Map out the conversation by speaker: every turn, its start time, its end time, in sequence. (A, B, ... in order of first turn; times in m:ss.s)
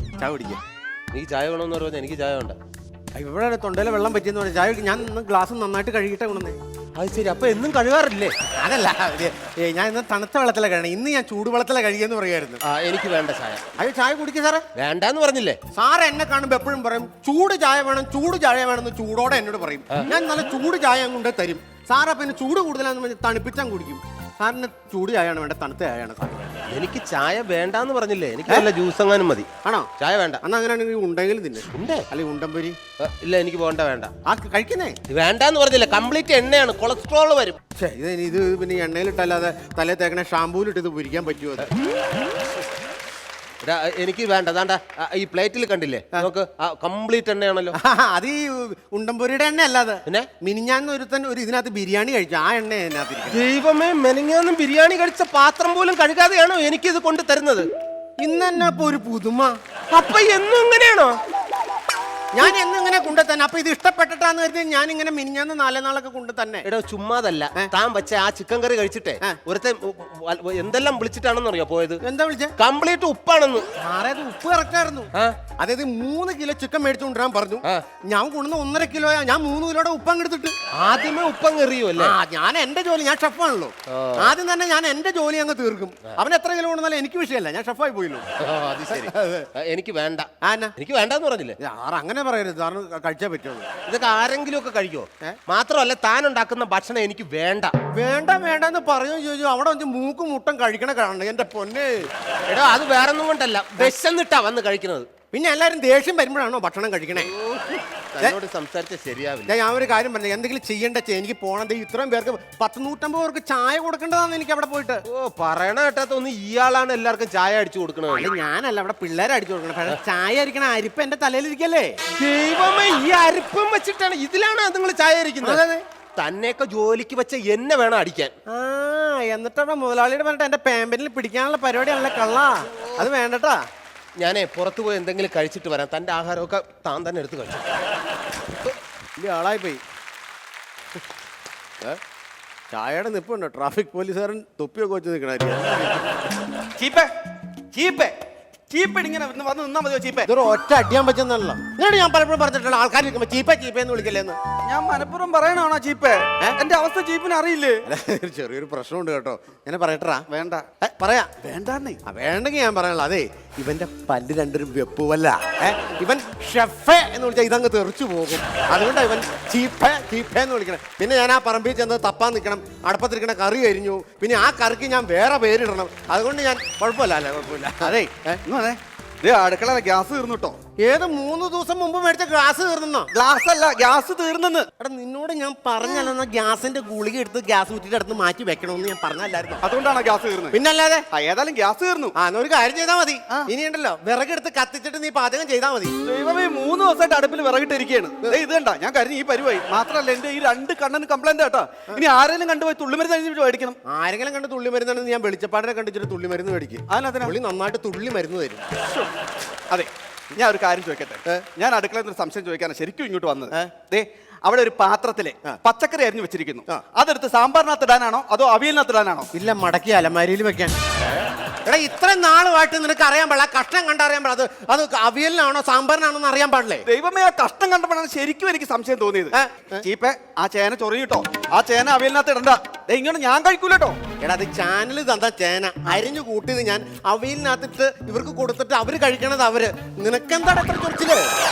0:00.2-0:00.6 A
0:01.1-0:02.6 B
0:03.1-0:06.6 A
0:07.0-0:08.3 B
0:08.6-0:12.6 A
0:12.6-0:13.6 B
0:13.8-0:14.6 A
0:14.7-0:15.6 B
0:15.7-0:26.6 A
0:26.7-0:29.5 B
0:29.6-0:29.9 A
0:30.0-0:30.4 B
0:30.4-0:32.8 A
0:31.7-0:32.0 B
0:33.0-0:34.1 B
0:34.2-0:35.0 A
0:35.1-0:37.6 B
0:37.8-0:41.7 A
0:43.6-0:47.8 B
0:47.7-0:53.4 A
0:53.3-0:57.7 B
0:58.2-0:59.5 A
0:59.9-1:01.2 B
1:02.3-1:06.7 A
1:06.6-1:12.0 B
1:12.0-1:12.5 A
1:12.6-1:13.7 B
1:13.8-1:20.5 A
1:20.8-1:22.1 B
1:22.0-1:28.2 A
1:23.9-1:24.3 B
1:28.4-1:31.6 B
1:28.9-1:29.5 A
1:30.4-1:30.7 A
1:31.6-1:33.7 A
1:33.9-1:37.7 B
1:37.9-1:42.0 A
1:42.5-1:45.1 B
1:45.3-1:47.3 A
1:47.2-1:49.5 B
1:49.5-1:55.0 A
1:55.1-1:58.3 B
1:58.1-2:02.0 A
2:02.1-2:05.6 B
2:05.4-2:05.8 A
2:06.2-2:08.3 B
2:08.5-2:13.6 A
2:14.2-2:17.6 B
2:19.2-2:19.8 A
2:22.7-2:26.1 A
2:26.8-2:27.1 C
2:27.7-2:28.2 C
2:28.7-2:30.3 C
2:30.2-2:34.4 A
2:34.7-2:37.8 C
2:37.9-2:40.2 A
2:40.3-2:40.6 C
2:40.8-2:41.4 A
2:41.4-2:42.0 C
2:42.0-2:58.4 A
2:57.8-3:00.6 C
3:00.8-3:03.1 A
3:03.1-3:04.7 C
3:04.8-3:09.6 A
3:09.6-3:10.6 C
3:10.5-3:11.0 A
3:11.1-3:12.1 C
3:12.1-3:15.9 A
3:16.0-3:23.8 C
3:23.8-3:28.6 A
3:26.9-3:27.3 C
3:29.7-3:39.3 C
3:39.3-3:40.7 A
3:41.6-3:46.8 A
3:46.8-3:54.0 C
3:49.3-3:49.8 A
3:54.2-4:01.2 A